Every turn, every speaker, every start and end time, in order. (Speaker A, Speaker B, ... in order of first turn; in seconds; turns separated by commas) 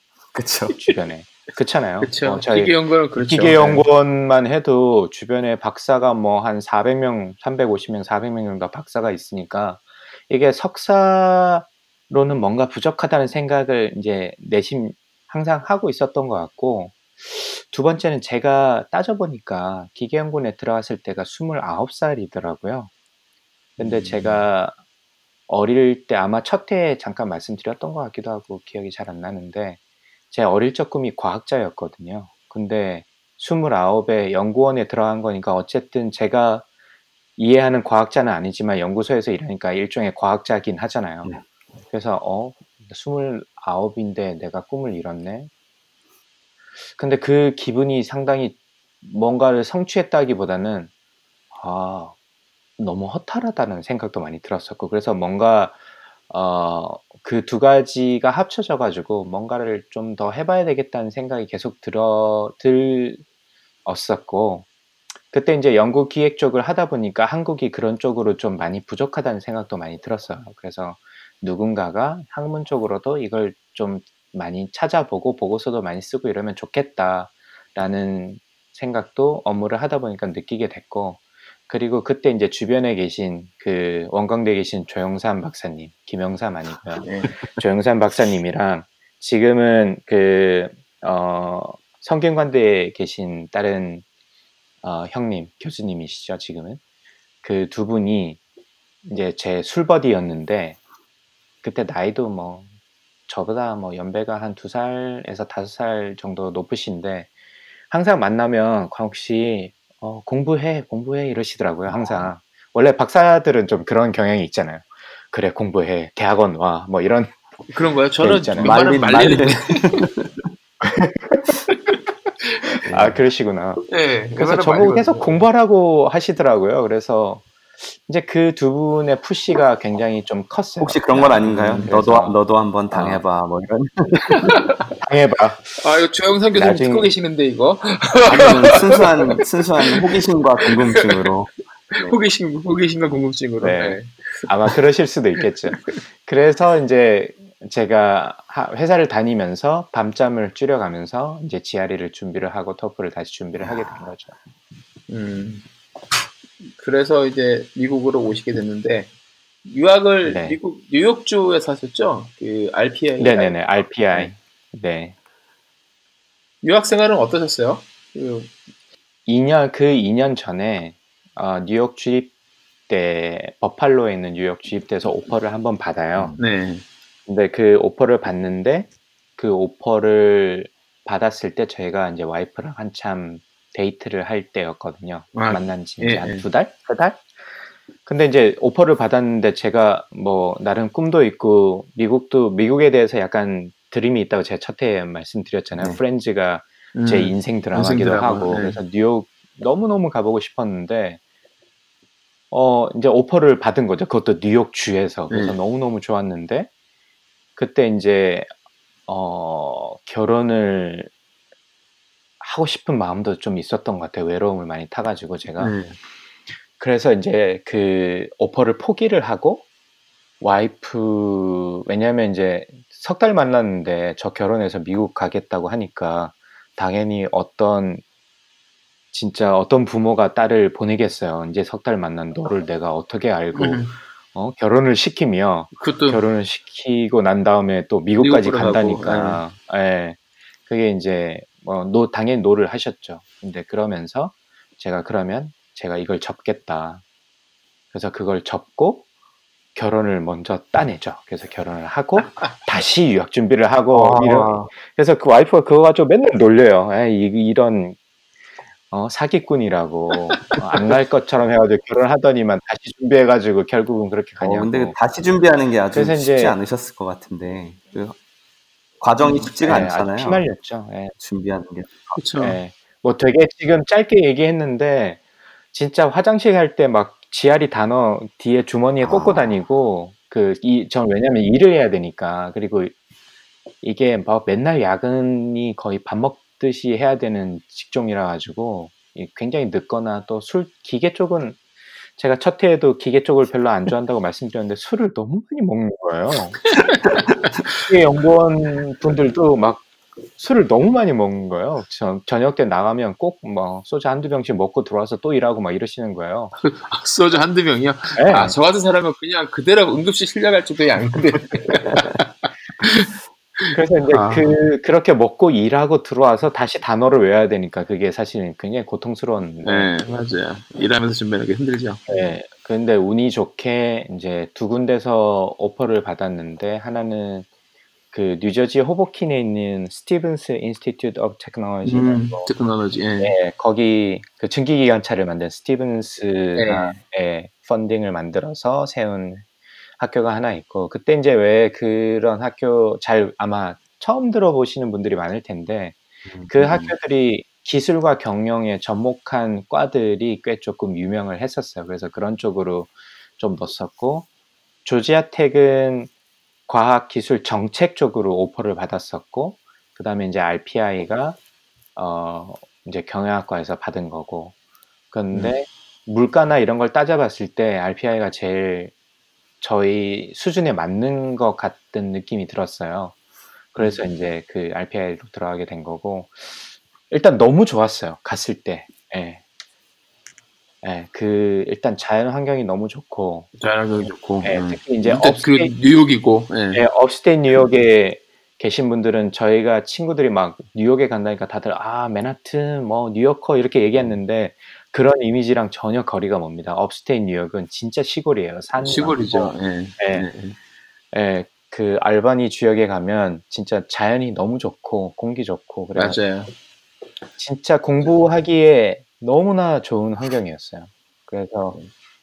Speaker A: 0.3-0.8, Speaker B: 0.7-22.9, Speaker C: 2.0-3.9, Speaker B: 23.8-24.8, Speaker B: 25.5-29.8, Speaker B: 30.3-36.6, Speaker B: 37.4-41.3, Speaker B: 41.9-45.5, Speaker B: 47.0-50.9, Speaker B: 51.5-52.1, Speaker B: 52.8-55.8, Speaker B: 56.3-63.2, Speaker B: 63.9-64.7, Speaker B: 65.3-94.0, Speaker C: 87.0-87.3, Speaker B: 94.8-96.8, Speaker B: 97.4-98.4, Speaker B: 99.0-100.8, Speaker B: 101.6-102.7, Speaker B: 103.3-107.3, Speaker B: 107.9-117.4, Speaker A: 111.9-112.2, Speaker C: 117.7-120.0, Speaker B: 118.2-118.8, Speaker A: 118.6-120.5, Speaker B: 120.8-121.5, Speaker C: 121.7-122.7, Speaker A: 122.9-123.2, Speaker B: 122.9-132.4, Speaker C: 123.9-125.5, Speaker A: 130.8-134.6, Speaker B: 132.9-133.2, Speaker B: 135.0-135.8, Speaker C: 135.8-139.3, Speaker B: 136.6-137.1, Speaker A: 138.3-142.2, Speaker C: 139.9-140.2, Speaker C: 140.7-141.0, Speaker C: 142.0-144.7, Speaker B: 143.6-154.3, Speaker C: 145.7-146.0, Speaker A: 153.6-154.1, Speaker C: 155.1-155.6, Speaker C: 156.6-159.1, Speaker C: 159.6-164.3, Speaker B: 160.2-160.6, Speaker B: 163.2-165.2, Speaker C: 166.6-168.6, Speaker B: 169.3-172.3, Speaker B: 172.9-176.3, Speaker C: 176.4-176.8, Speaker B: 177.3-187.3, Speaker C: 185.3-186.4, Speaker B: 188.1-201.2, Speaker C: 196.9-198.8, Speaker B: 202.5-206.7, Speaker C: 205.3-205.6, Speaker B: 207.6-208.5, Speaker B: 209.1-211.1, Speaker B: 212.4-215.8, Speaker C: 215.6-216.0, Speaker B: 216.8-219.7, Speaker B: 220.4-228.0, Speaker B: 229.1-247.0, Speaker C: 233.5-234.0, Speaker C: 235.8-236.2, Speaker C: 238.2-239.4, Speaker B: 247.9-249.0, Speaker B: 249.8-258.0, Speaker A: 253.9-254.7, Speaker B: 258.9-265.0, Speaker A: 264.4-268.2, Speaker B: 265.9-266.6, Speaker A: 269.0-270.4, Speaker C: 269.2-269.5, Speaker B: 269.6-271.1, Speaker A: 271.2-272.2, Speaker C: 272.2-272.6, Speaker B: 272.4-275.2, Speaker B: 275.7-282.9, Speaker A: 279.0-279.6, Speaker B: 283.8-291.6, Speaker B: 292.2-296.8, Speaker C: 296.8-297.9, Speaker B: 297.8-299.9, Speaker B: 300.4-306.5, Speaker C: 306.6-314.5, Speaker B: 308.2-308.6, Speaker B: 313.7-319.9, Speaker C: 319.6-322.0, Speaker B: 322.1-327.5, Speaker B: 328.1-332.5, Speaker C: 331.8-333.3, Speaker B: 333.2-339.4, Speaker C: 336.6-337.0, Speaker B: 340.0-354.3, Speaker A: 346.4-346.9, Speaker B: 354.9-356.1, Speaker B: 356.7-361.4, Speaker B: 362.0-364.6, Speaker B: 365.1-368.9, Speaker B: 369.6-373.1, Speaker B: 373.7-379.4, Speaker C: 373.8-374.1, Speaker B: 380.8-383.5, Speaker C: 383.6-386.8, Speaker B: 384.4-385.8, Speaker B: 386.7-400.3, Speaker C: 398.8-400.6, Speaker B: 401.1-406.2, Speaker C: 405.9-406.5, Speaker B: 407.4-411.8